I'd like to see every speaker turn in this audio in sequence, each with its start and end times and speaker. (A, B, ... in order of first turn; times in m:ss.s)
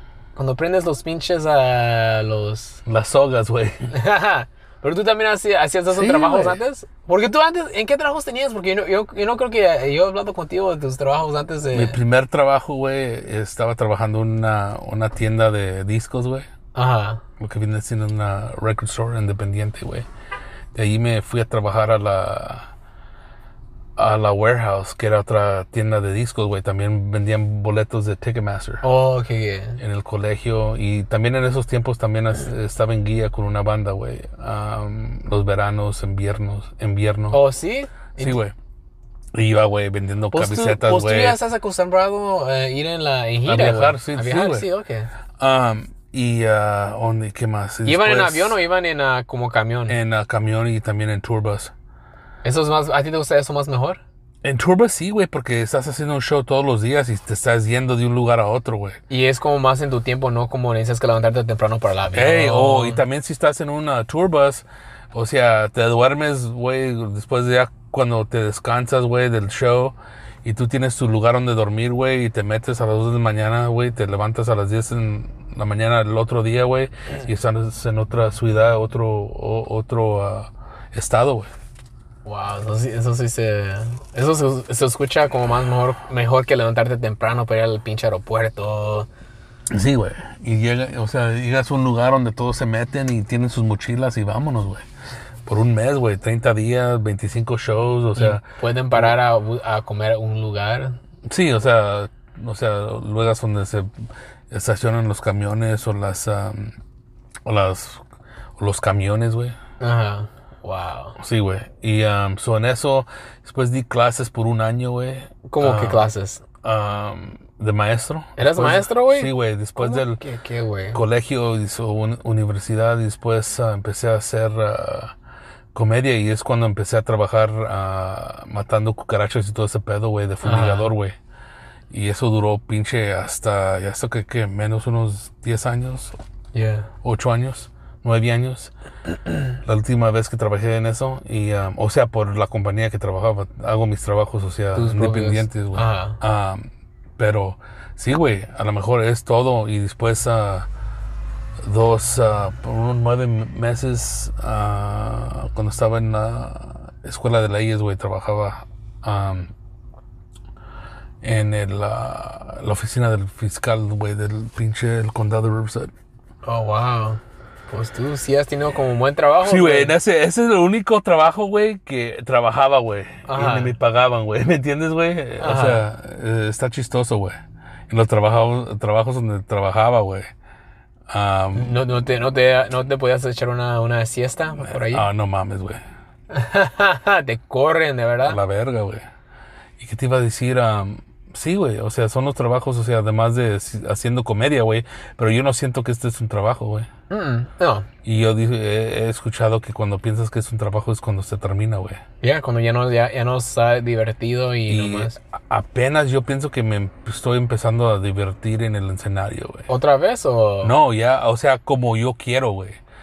0:00.4-0:02.8 A
0:02.9-0:03.9 B
0:03.9-0:12.0 A
0:05.9-0:06.6 B
0:11.7-0:16.5 B
0:16.8-0:17.2 A
0:17.4-0:20.1 B
0:20.7-0:22.7 B
0:24.0-0:28.8 B
0:28.8-0:29.8 A
0:29.8-0:37.4 B
0:37.3-0:38.4 A
0:38.2-0:38.5 B
0:39.3-0:41.4 B
0:40.3-0:45.1 A
0:43.4-0:44.7 B
0:45.4-0:48.6 B
0:47.8-0:50.0 A
0:49.9-0:51.7 B
0:52.4-0:54.0 A
0:54.4-0:59.0 B
0:59.1-1:03.0 A
1:02.1-1:21.5 B
1:22.2-1:29.1 A
1:29.7-1:34.9 B
1:35.5-1:39.2 B
1:38.2-1:41.0 A
1:41.3-1:44.0 B
1:44.5-1:46.8 B
1:47.4-1:48.0 B
1:48.6-1:49.6 B
1:49.8-1:51.2 A
1:51.2-1:56.1 B
1:55.5-1:56.4 A
1:56.6-2:00.2 B
1:58.4-2:01.0 A
2:00.9-2:05.1 B
2:05.7-2:11.2 B
2:10.4-2:10.9 A
2:11.9-2:16.2 B
2:16.5-2:16.9 A
2:17.0-2:18.7 B
2:19.6-2:30.7 B
2:24.8-2:26.2 A
2:31.6-2:39.5 B
2:41.2-2:45.9 B
2:46.4-2:49.9 A
2:49.4-2:57.4 B
2:53.3-2:53.7 A
2:55.4-2:55.8 A
2:57.9-3:00.3 B
3:01.1-3:01.8 B
3:01.6-3:05.1 A
3:04.7-3:05.8 B
3:06.3-3:08.4 A
3:08.3-3:09.0 B
3:09.8-3:16.9 B
3:17.1-3:17.9 A
3:18.0-3:22.0 B
3:22.2-3:25.2 A
3:24.7-3:29.7 B
3:29.7-3:30.7 A
3:30.6-3:32.8 B